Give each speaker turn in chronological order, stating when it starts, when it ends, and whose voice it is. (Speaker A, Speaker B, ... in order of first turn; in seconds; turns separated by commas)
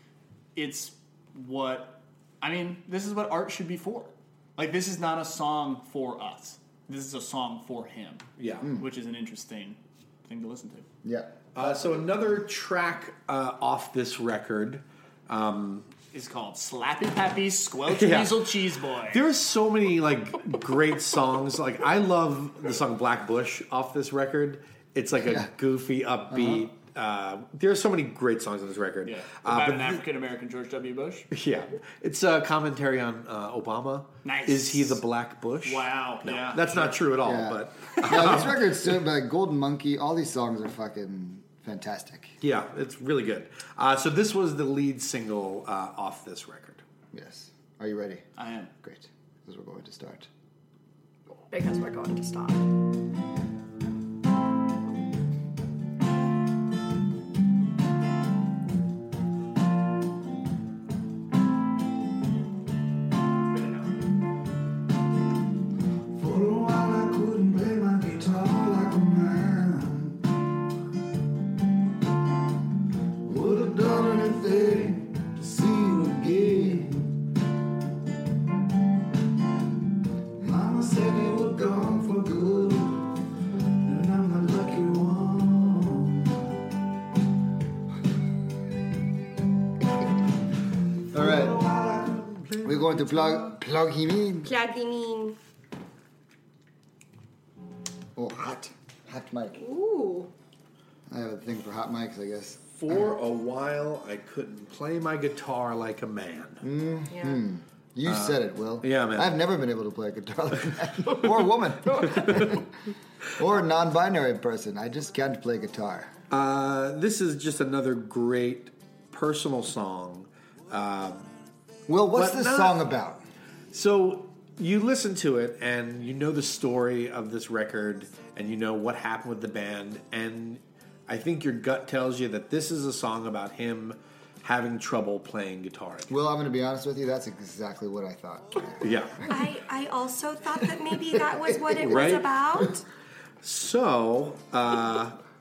Speaker A: 0.5-8.2, Speaker B: 8.4-8.7, Speaker A: 8.8-10.9, Speaker C: 11.0-11.7, Speaker B: 11.5-15.9, Speaker A: 16.1-19.2, Speaker B: 17.9-18.4, Speaker B: 19.1-30.0, Speaker C: 25.2-25.5, Speaker C: 26.3-26.6, Speaker A: 29.0-31.3, Speaker B: 31.3-38.8, Speaker A: 34.2-35.0, Speaker A: 35.6-37.0, Speaker C: 37.2-42.3, Speaker B: 42.4-46.8, Speaker C: 47.1-48.2, Speaker A: 48.4-48.7, Speaker C: 48.8-50.3, Speaker D: 51.5-52.6, Speaker E: 66.2-69.4, Speaker C: 66.6-70.2, Speaker C: 73.3-74.3, Speaker E: 73.3-76.8, Speaker C: 75.3-76.9, Speaker E: 80.4-83.0, Speaker E: 83.8-86.2, Speaker C: 91.1-91.6, Speaker E: 91.1-92.5, Speaker B: 92.4-93.5, Speaker C: 92.6-94.5, Speaker D: 94.4-95.4, Speaker C: 98.2-99.6, Speaker D: 99.6-100.3, Speaker C: 101.1-103.1, Speaker B: 102.7-106.6, Speaker C: 106.6-112.7, Speaker D: 107.1-107.4, Speaker B: 108.0-109.4, Speaker D: 111.9-112.5, Speaker B: 112.1-112.5, Speaker C: 113.3-116.1, Speaker B: 116.3-121.3, Speaker C: 121.9-123.2, Speaker B: 122.1-122.8, Speaker B: 123.7-136.2, Speaker C: 136.1-138.9, Speaker B: 138.8-139.3, Speaker D: 139.3-142.8, Speaker C: 141.5-142.2, Speaker B: 141.8-142.3, Speaker B: 143.4-145.2